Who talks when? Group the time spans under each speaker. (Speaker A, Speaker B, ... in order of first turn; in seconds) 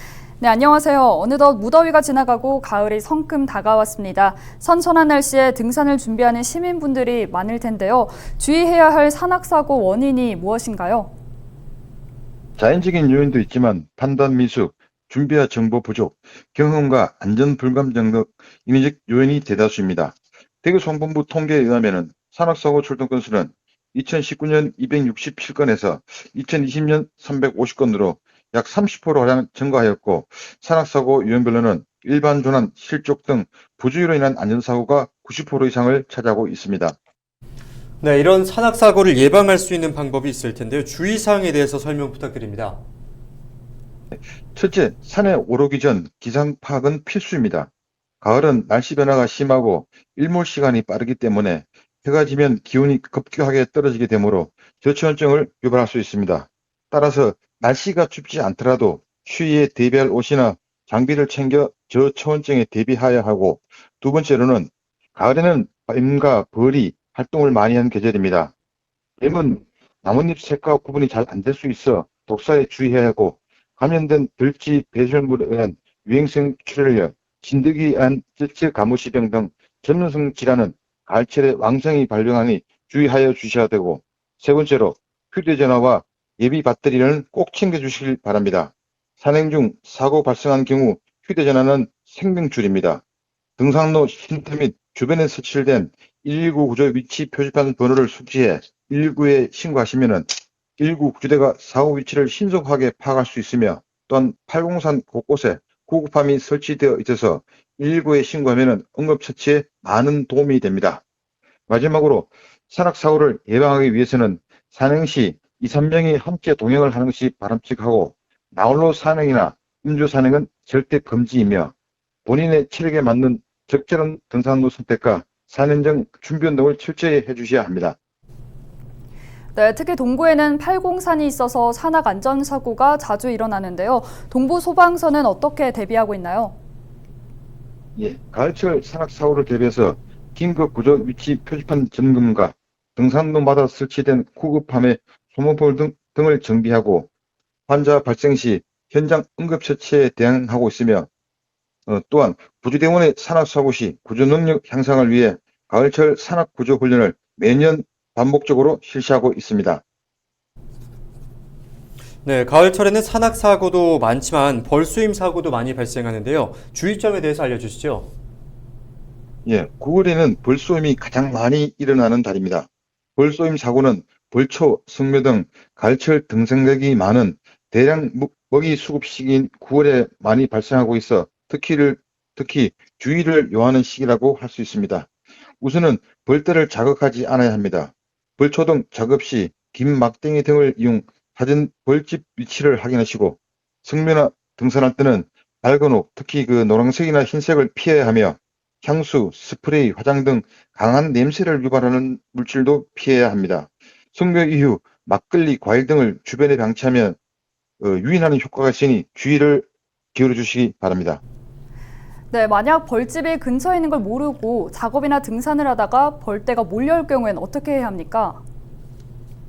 Speaker A: 0.4-11.1, 129.5-136.5, 212.3-218.4
Speaker B: 12.6-37.0, 44.5-47.7, 48.2-68.5, 69.2-93.0, 93.6-111.0, 111.7-121.7, 122.2-128.0, 137.9-147.1, 147.7-151.1, 151.9-159.8, 169.4-185.1, 185.6-207.2, 207.8-211.2
Speaker C: 38.0-42.8, 162.2-168.1